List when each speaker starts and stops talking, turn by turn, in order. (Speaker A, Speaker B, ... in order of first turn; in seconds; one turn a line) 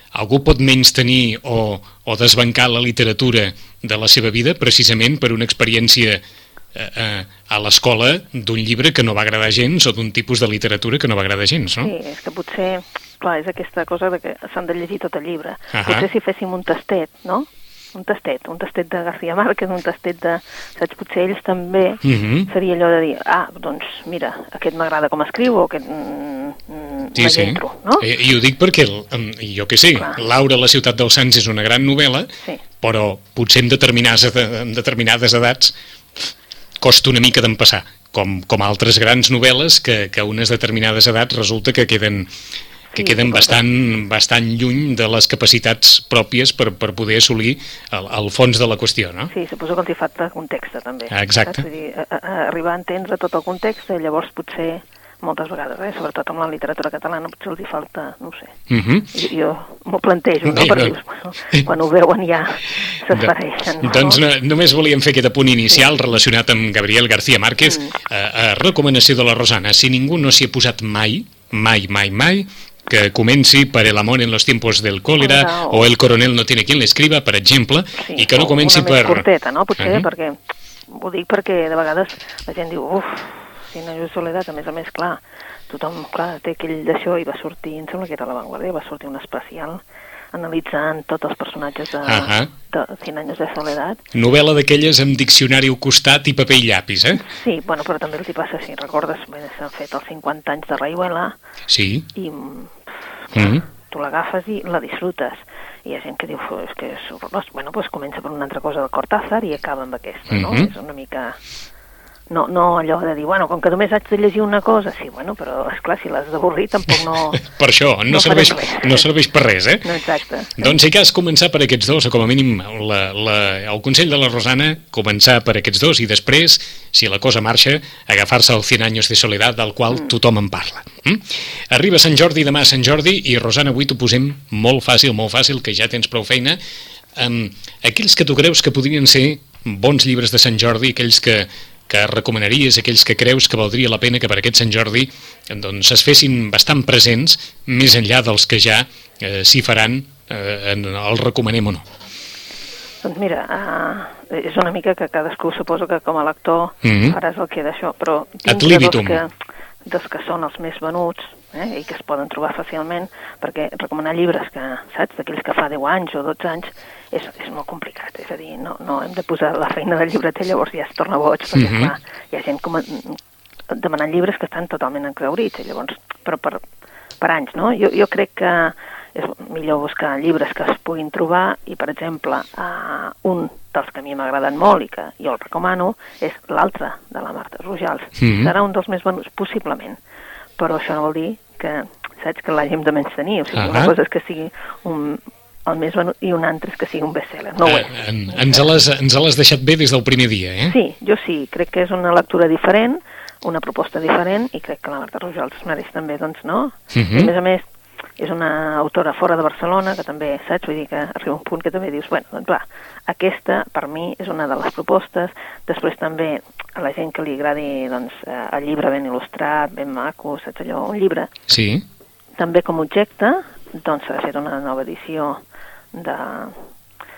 Speaker A: 0.1-6.2
Speaker A: 6.8-11.9
Speaker B: 11.8-28.1
Speaker A: 15.7-16.1
Speaker A: 22.0-22.5
Speaker A: 27.1-32.3
Speaker B: 29.9-30.2
Speaker A: 32.8-35.8
Speaker A: 36.8-42.3
Speaker B: 42.9-43.6
Speaker A: 42.9-49.3
Speaker B: 49.3-64.2
Speaker A: 51.1-51.6
Speaker A: 58.7-59.1
Speaker A: 60.4-61.0
Speaker A: 63.1-79.3
Speaker B: 67.7-67.9
Speaker B: 75.2-75.9
Speaker B: 78.0-94.0
Speaker A: 79.8-80.1
Speaker A: 92.0-92.5
Speaker A: 94.1-97.3
Speaker B: 97.1-101.3
Speaker A: 101.7-102.1
Speaker B: 102.1-111.4
Speaker A: 103.3-103.7
Speaker A: 110.3-110.7
Speaker B: 112.3-117.4
Speaker A: 117.3-120.0
Speaker B: 118.1-119.1
Speaker B: 119.8-120.8
Speaker A: 120.6-136.6
Speaker A: 137.2-151.8
Speaker B: 153.0-159.3
Speaker A: 156.8-157.2
Speaker A: 158.5-159.2
Speaker B: 159.9-176.6
Speaker A: 171.5-171.9
Speaker B: 177.2-190.0
Speaker A: 188.2-188.5
Speaker B: 190.6-198.7
Speaker A: 193.5-193.9
Speaker A: 197.6-200.8
Speaker B: 200.7-207.7
Speaker A: 206.9-207.3
Speaker B: 208.2-221.3
Speaker A: 221.5-221.8
Speaker B: 222.4-225.4
Speaker B: 225.9-226.7